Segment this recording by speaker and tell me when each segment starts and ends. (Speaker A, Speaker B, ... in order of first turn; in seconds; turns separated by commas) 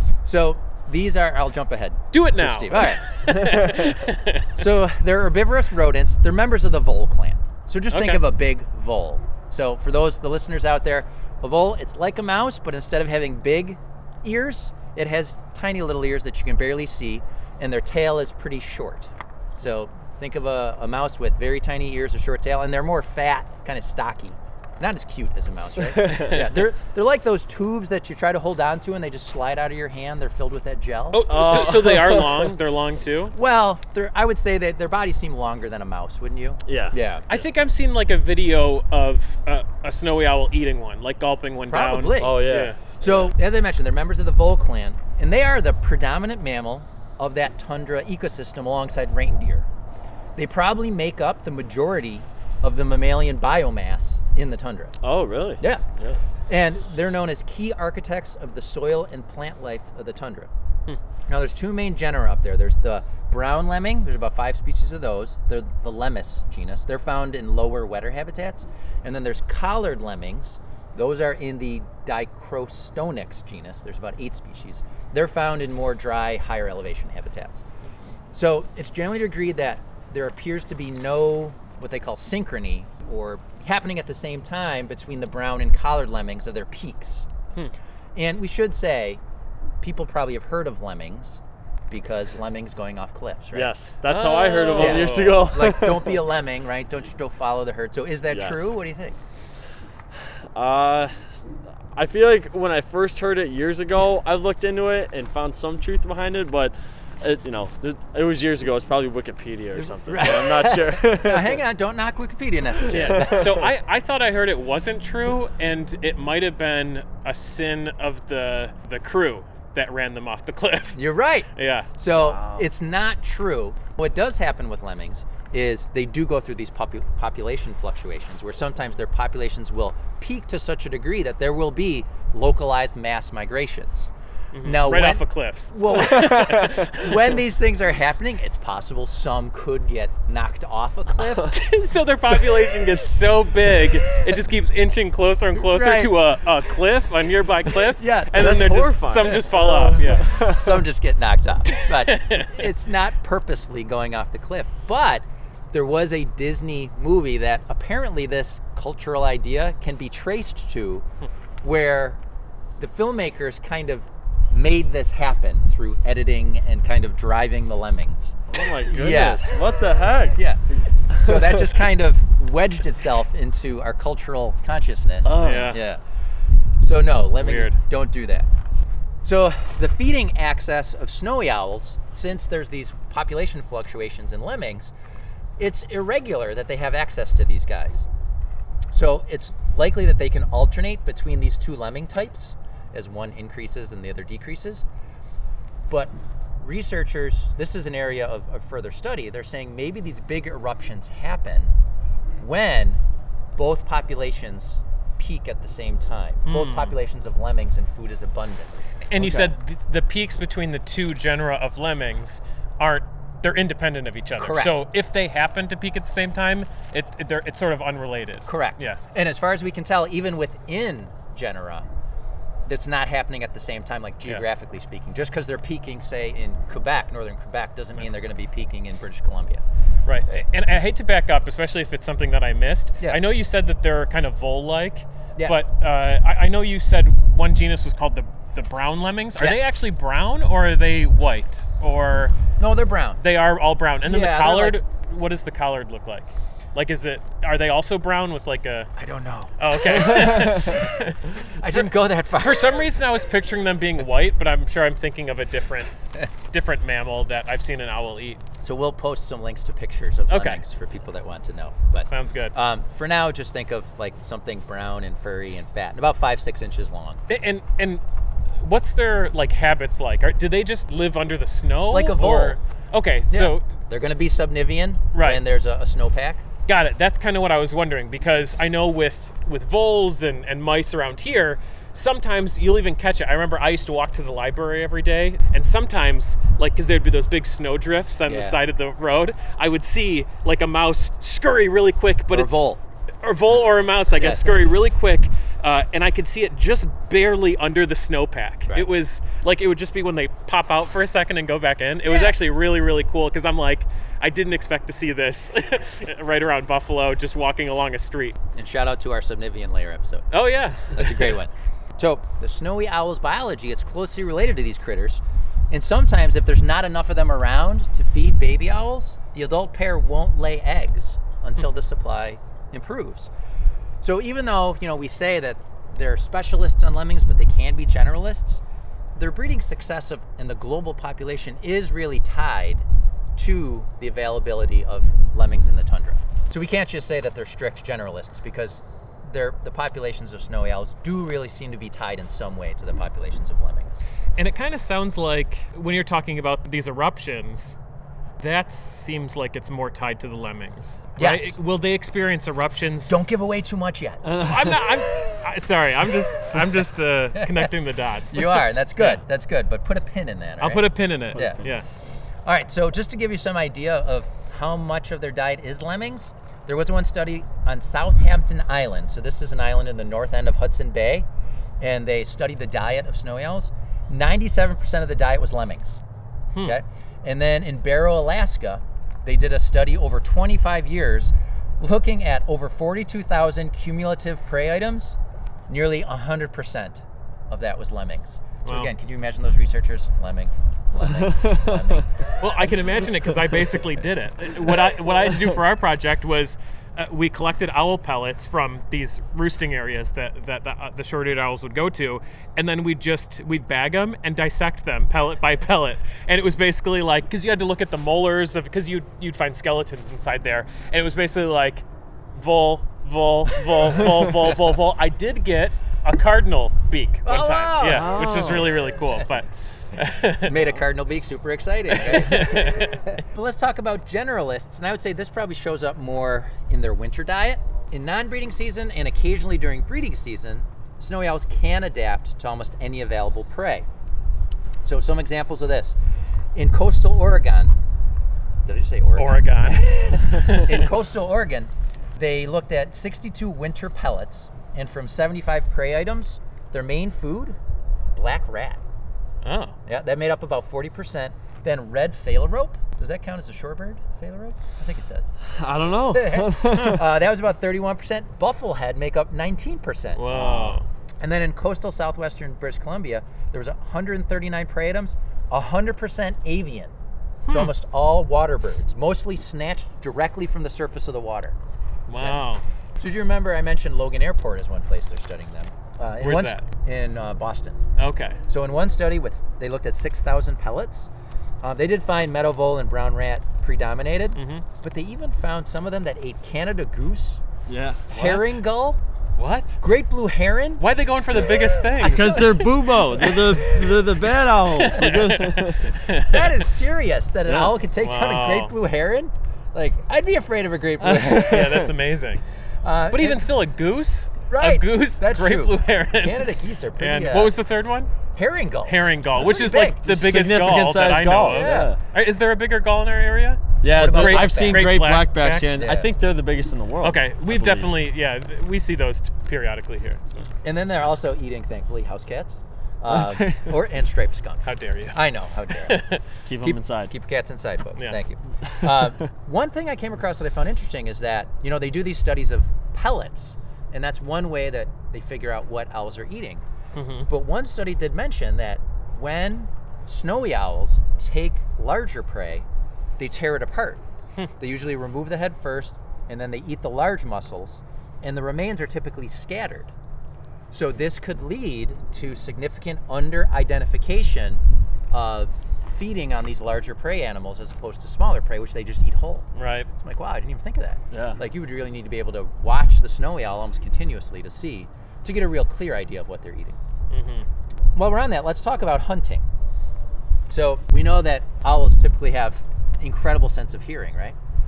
Speaker A: 0.2-3.8, Speaker B: 2.1-4.5, Speaker A: 4.6-32.1, Speaker B: 7.9-8.2, Speaker C: 25.9-26.4, Speaker B: 31.1-33.4, Speaker C: 31.3-32.5, Speaker A: 33.3-37.3, Speaker C: 36.7-37.0, Speaker B: 37.3-42.8, Speaker A: 41.7-49.7, Speaker C: 42.2-43.3, Speaker A: 50.4-55.0, Speaker C: 55.0-56.2, Speaker A: 56.5-60.5, Speaker A: 61.3-77.6, Speaker A: 78.3-87.3, Speaker A: 88.2-89.2, Speaker A: 89.8-93.8, Speaker C: 93.5-96.2, Speaker B: 94.1-95.5, Speaker A: 94.8-99.2, Speaker C: 98.3-98.8, Speaker C: 100.5-101.1, Speaker C: 101.9-111.6, Speaker A: 109.8-113.7, Speaker C: 112.8-113.7, Speaker B: 112.9-121.0, Speaker A: 121.0-134.1, Speaker B: 121.6-121.9, Speaker C: 122.1-122.7, Speaker B: 134.5-137.3, Speaker A: 134.6-141.6, Speaker B: 141.5-150.3, Speaker A: 145.6-146.1, Speaker A: 148.0-148.7, Speaker C: 148.3-150.8, Speaker A: 149.2-161.1, Speaker B: 151.8-152.7, Speaker A: 161.6-162.2, Speaker A: 162.8-169.5, Speaker C: 168.5-171.8, Speaker A: 170.3-170.6, Speaker A: 171.1-176.0, Speaker C: 175.2-175.8, Speaker B: 175.4-175.8, Speaker A: 176.8-178.5, Speaker B: 177.4-177.8, Speaker A: 179.2-184.9, Speaker A: 185.6-188.1, Speaker A: 188.9-194.8, Speaker A: 195.9-201.7, Speaker A: 202.4-203.0, Speaker A: 203.6-209.5, Speaker B: 206.5-206.9, Speaker B: 209.1-219.0, Speaker A: 214.4-214.8, Speaker A: 218.5-221.9, Speaker A: 222.7-229.6, Speaker B: 230.1-242.3, Speaker A: 242.6-243.2, Speaker B: 243.2-248.9, Speaker A: 244.1-244.8, Speaker A: 249.0-251.1, Speaker B: 249.6-255.9, Speaker C: 250.0-250.6, Speaker A: 251.6-252.8, Speaker B: 256.5-258.4, Speaker A: 258.6-267.2, Speaker B: 260.3-260.6, Speaker B: 262.1-262.5, Speaker B: 267.3-268.0, Speaker B: 268.6-273.6, Speaker A: 271.9-272.6, Speaker A: 273.3-276.4, Speaker B: 275.1-275.4, Speaker B: 276.7-292.6, Speaker A: 288.3-288.6, Speaker A: 292.3-292.8, Speaker B: 293.2-308.4, Speaker A: 294.2-294.6, Speaker A: 302.1-302.4, Speaker A: 308.6-310.3, Speaker B: 310.3-311.4, Speaker A: 310.9-323.3, Speaker A: 324.0-328.6, Speaker A: 329.1-332.9, Speaker A: 333.4-344.0, Speaker B: 344.4-347.8, Speaker B: 348.4-353.1, Speaker A: 351.2-351.6, Speaker A: 353.1-354.3, Speaker C: 354.2-354.9, Speaker B: 354.4-359.2, Speaker A: 357.4-357.7, Speaker A: 358.3-361.6, Speaker B: 360.6-361.9, Speaker C: 361.3-361.8, Speaker A: 362.4-371.3, Speaker A: 371.8-376.0, Speaker A: 376.6-385.2, Speaker A: 385.7-392.1, Speaker B: 388.7-388.9, Speaker C: 391.2-392.0, Speaker B: 392.4-420.7, Speaker A: 417.2-418.3, Speaker C: 417.8-418.9, Speaker A: 420.4-433.9, Speaker B: 421.9-423.1, Speaker A: 434.9-436.0, Speaker A: 436.6-437.7, Speaker A: 438.7-447.6, Speaker B: 439.2-440.9, Speaker A: 448.1-448.8, Speaker B: 449.4-449.8, Speaker A: 449.9-455.3, Speaker C: 455.5-457.1, Speaker A: 456.1-466.9, Speaker B: 460.2-460.8, Speaker B: 467.5-467.7, Speaker A: 467.5-471.6, Speaker B: 472.1-472.6, Speaker A: 473.0-477.8, Speaker B: 476.2-476.6, Speaker B: 478.0-478.4, Speaker A: 478.5-481.1, Speaker A: 481.6-487.4, Speaker B: 484.4-484.6, Speaker C: 487.7-488.6, Speaker A: 488.1-489.0, Speaker B: 489.4-489.8, Speaker A: 489.8-490.8, Speaker B: 490.8-493.4, Speaker C: 492.0-495.9, Speaker A: 492.0-493.8, Speaker B: 494.8-496.6, Speaker A: 496.2-501.8, Speaker C: 497.5-497.7, Speaker B: 498.0-498.7, Speaker C: 501.0-501.9, Speaker B: 501.2-502.4, Speaker A: 502.8-503.4, Speaker B: 503.1-508.1, Speaker A: 504.5-507.6, Speaker A: 508.3-510.1, Speaker B: 508.9-515.8, Speaker C: 510.0-512.0, Speaker A: 511.5-511.9, Speaker C: 513.8-518.0, Speaker A: 513.9-515.0, Speaker A: 515.7-516.1, Speaker B: 517.0-520.5, Speaker A: 520.6-526.1, Speaker C: 523.1-523.8, Speaker B: 524.6-526.2, Speaker C: 526.5-527.1, Speaker A: 526.6-536.6, Speaker C: 528.7-529.1, Speaker B: 536.9-537.3, Speaker A: 537.3-542.7, Speaker A: 543.2-544.0, Speaker A: 544.6-549.9, Speaker A: 550.7-566.8, Speaker B: 559.5-559.9, Speaker C: 561.1-561.4, Speaker B: 567.1-567.5, Speaker A: 568.0-569.5, Speaker A: 570.5-574.4